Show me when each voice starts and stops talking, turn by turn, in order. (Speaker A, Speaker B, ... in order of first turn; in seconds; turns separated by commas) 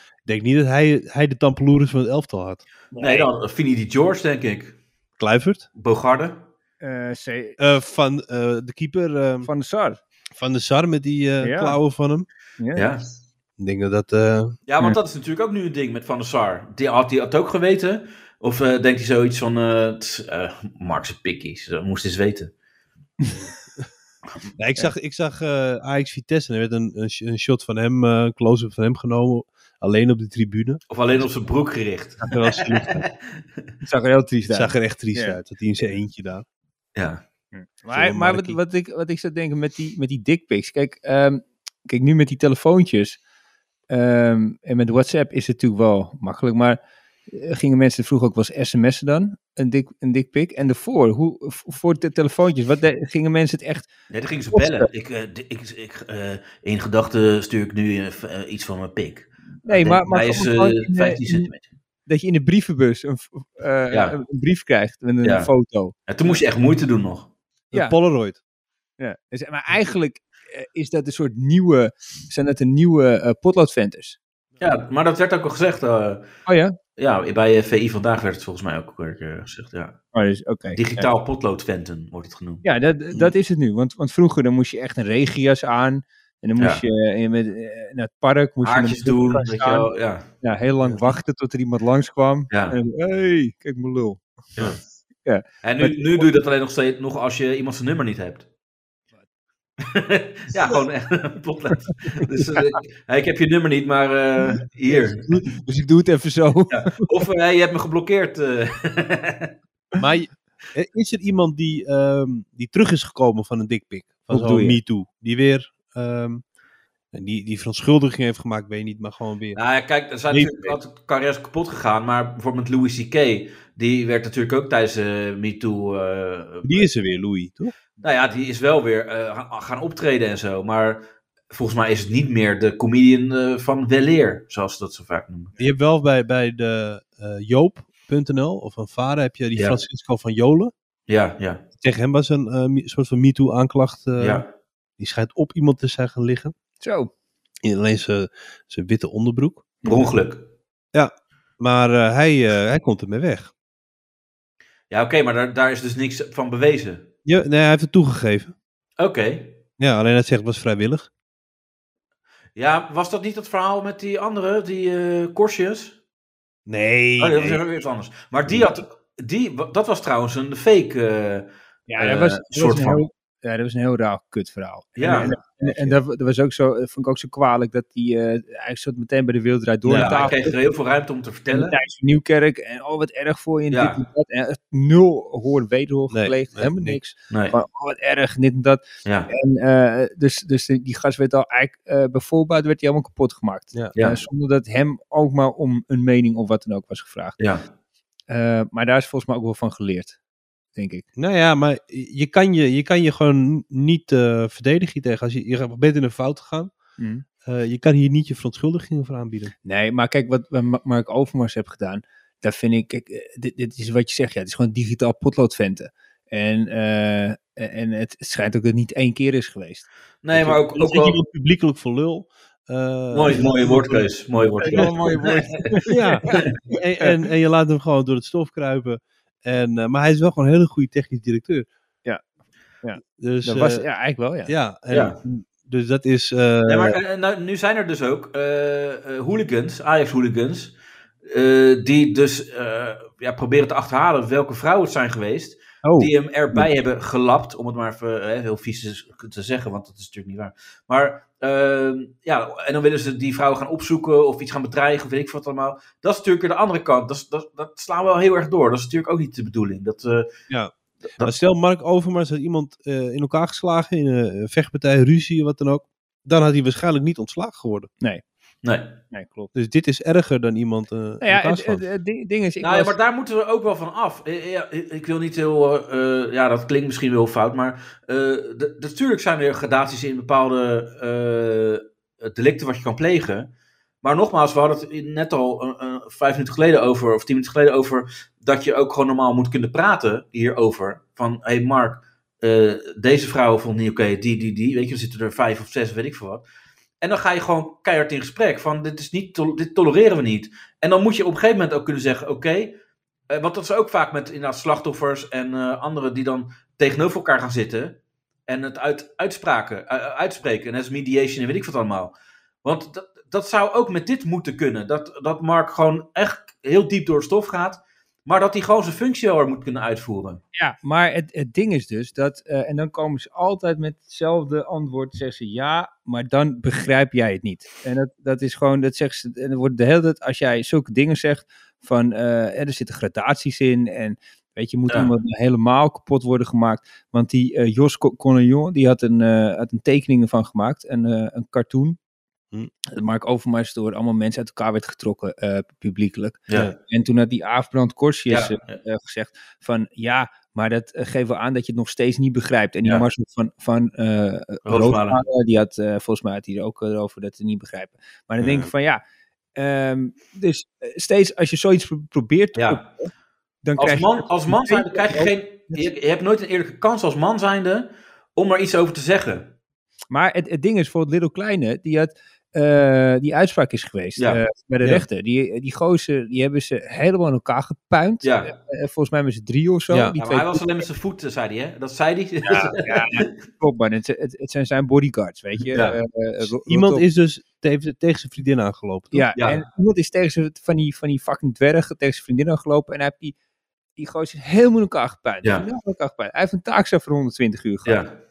Speaker A: 0.2-2.6, Speaker B: 2.9-3.3, Speaker C: 3.0-4.8, Speaker A: 5.2-5.7, Speaker C: 5.8-6.4, Speaker B: 6.8-7.6, Speaker A: 7.6-9.5, Speaker B: 9.4-10.0, Speaker A: 10.3-12.3, Speaker B: 11.4-11.8, Speaker B: 12.6-12.9, Speaker C: 12.7-13.0, Speaker A: 13.6-14.6, Speaker C: 14.7-22.5, Speaker A: 24.6-30.8, Speaker C: 30.9-33.1, Speaker A: 32.3-33.0, Speaker B: 33.8-35.4, Speaker A: 34.5-36.4, Speaker C: 37.0-37.2, Speaker B: 37.5-43.2, Speaker A: 37.9-38.6, Speaker B: 43.9-53.9, Speaker C: 54.1-61.6, Speaker B: 54.5-54.9, Speaker B: 59.6-61.5, Speaker B: 62.1-66.4, Speaker C: 63.9-64.2, Speaker C: 65.2-65.5, Speaker C: 66.1-67.3, Speaker A: 67.7-68.4, Speaker B: 69.0-74.2, Speaker C: 74.6-76.3, Speaker B: 76.5-76.8, Speaker C: 77.0-80.0, Speaker B: 80.1-81.1, Speaker C: 80.7-82.6, Speaker B: 82.6-89.9, Speaker C: 88.6-90.3, Speaker B: 90.4-94.2, Speaker C: 92.5-92.8, Speaker B: 95.2-96.3, Speaker C: 95.6-98.5, Speaker C: 99.8-105.2, Speaker B: 104.5-107.0, Speaker C: 106.7-109.5, Speaker A: 110.0-116.4, Speaker B: 114.3-114.8, Speaker A: 117.1-119.6, Speaker C: 119.5-126.9, Speaker A: 120.3-120.8, Speaker A: 126.6-127.7, Speaker C: 128.0-135.5, Speaker A: 135.6-140.7, Speaker C: 141.1-141.6, Speaker A: 141.8-144.4, Speaker C: 144.2-144.5, Speaker A: 145.0-146.5, Speaker B: 146.8-147.1, Speaker A: 147.6-149.7, Speaker C: 149.8-150.4, Speaker A: 150.9-153.5, Speaker C: 154.9-157.0, Speaker A: 157.2-158.5, Speaker C: 159.0-159.6, Speaker A: 159.8-161.1, Speaker C: 162.6-165.9, Speaker A: 166.7-167.6, Speaker C: 167.2-173.0, Speaker B: 171.9-180.6, Speaker C: 175.0-175.3, Speaker A: 179.8-180.3, Speaker C: 179.9-181.8, Speaker B: 181.5-197.4, Speaker C: 183.7-184.0, Speaker A: 186.1-187.0, Speaker C: 189.0-189.3, Speaker C: 193.9-194.2, Speaker B: 198.3-200.2, Speaker B: 200.7-201.0, Speaker A: 201.2-206.7, Speaker B: 207.0-207.2, Speaker A: 207.4-209.5, Speaker B: 209.6-219.9, Speaker C: 220.2-221.2, Speaker A: 220.3-224.1, Speaker C: 223.1-225.7, Speaker B: 224.6-226.5, Speaker A: 224.7-224.9, Speaker A: 225.9-231.7, Speaker B: 232.8-234.5, Speaker A: 233.2-233.9, Speaker A: 234.4-237.0, Speaker C: 234.9-235.2, Speaker C: 236.7-240.7, Speaker C: 241.3-260.3, Speaker B: 245.8-246.6, Speaker A: 260.5-267.9, Speaker C: 268.6-268.9, Speaker B: 269.1-269.5, Speaker A: 269.5-271.9, Speaker B: 271.2-272.9, Speaker C: 272.6-283.5, Speaker C: 284.0-296.4, Speaker C: 297.0-302.7, Speaker C: 303.3-320.4, Speaker B: 320.5-342.0, Speaker B: 342.9-359.0, Speaker C: 348.3-348.8, Speaker C: 354.6-355.2, Speaker B: 359.6-363.1, Speaker C: 362.5-362.8, Speaker B: 363.6-365.8, Speaker C: 363.8-369.5, Speaker B: 370.1-380.7, Speaker C: 374.2-374.4, Speaker C: 378.2-378.5, Speaker A: 379.9-380.1, Speaker C: 380.2-383.3, Speaker B: 382.4-387.0, Speaker C: 385.7-386.0, Speaker A: 386.6-389.2, Speaker B: 389.1-393.4, Speaker C: 389.4-389.6, Speaker B: 394.0-398.1, Speaker C: 397.9-398.1